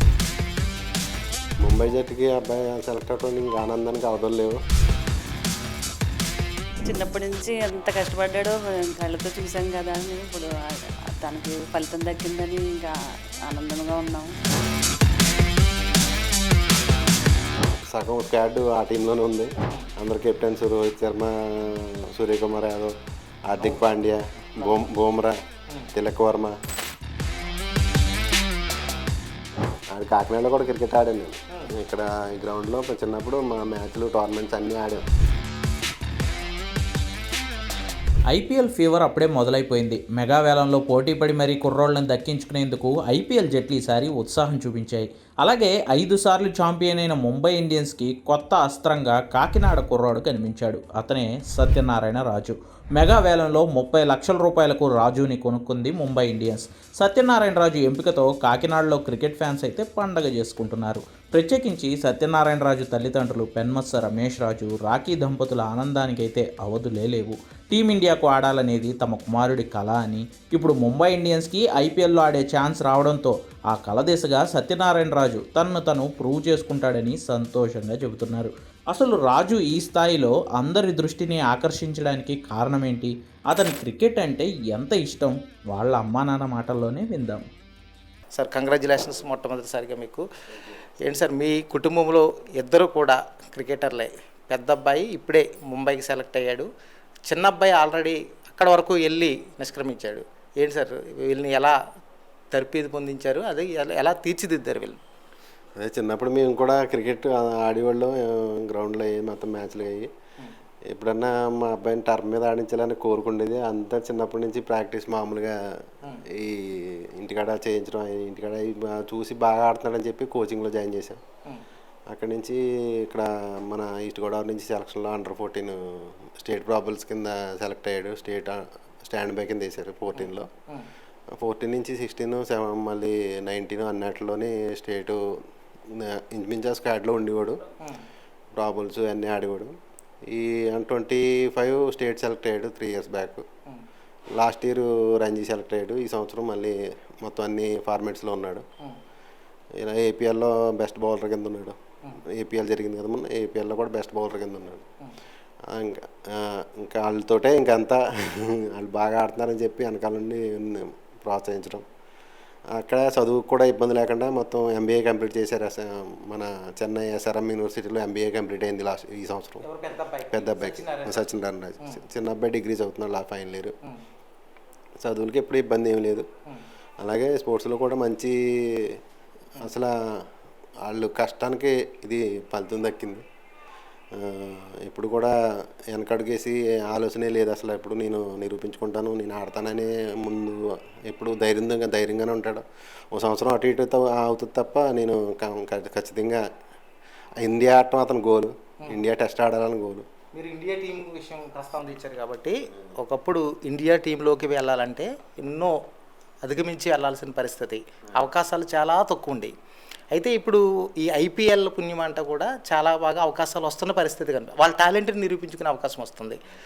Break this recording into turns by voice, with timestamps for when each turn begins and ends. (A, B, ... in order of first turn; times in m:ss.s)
0:01.6-0:04.6 A
0:06.8-0:10.5 B
0:11.2-0:12.9 B
0:13.5-0:14.3 B
0:17.9-0:22.9 A
0:23.5-0:25.4 A
0:23.6-0:23.8 C
0:24.6-0:24.9 C
0:25.9-0:26.6 A
0:29.9-0:35.1 A
0:38.3-1:27.4 D
1:28.3-1:30.2 C
1:31.0-1:36.7 C
1:37.3-1:41.8 C
1:42.5-1:45.0 C
1:45.8-1:50.1 A
1:50.9-1:55.8 A
1:56.3-2:01.2 A
2:02.1-2:10.5 A
2:10.2-2:10.9 C
2:11.4-2:15.2 A
2:15.9-2:17.6 A
2:18.6-2:23.5 A
2:24.4-2:28.6 A
2:29.8-2:34.9 A
2:35.7-2:41.8 A
2:42.7-2:49.6 A
2:49.6-2:51.3 C
2:50.3-2:53.7 A
2:55.0-2:56.3 A
2:57.0-2:59.0 A
2:59.6-3:00.3 A
3:00.8-3:03.2 A
3:04.1-3:05.4 A
3:05.9-3:16.4 A
3:17.4-3:20.1 A
3:20.3-3:25.8 C
3:26.4-3:29.5 C
3:30.1-3:36.4 C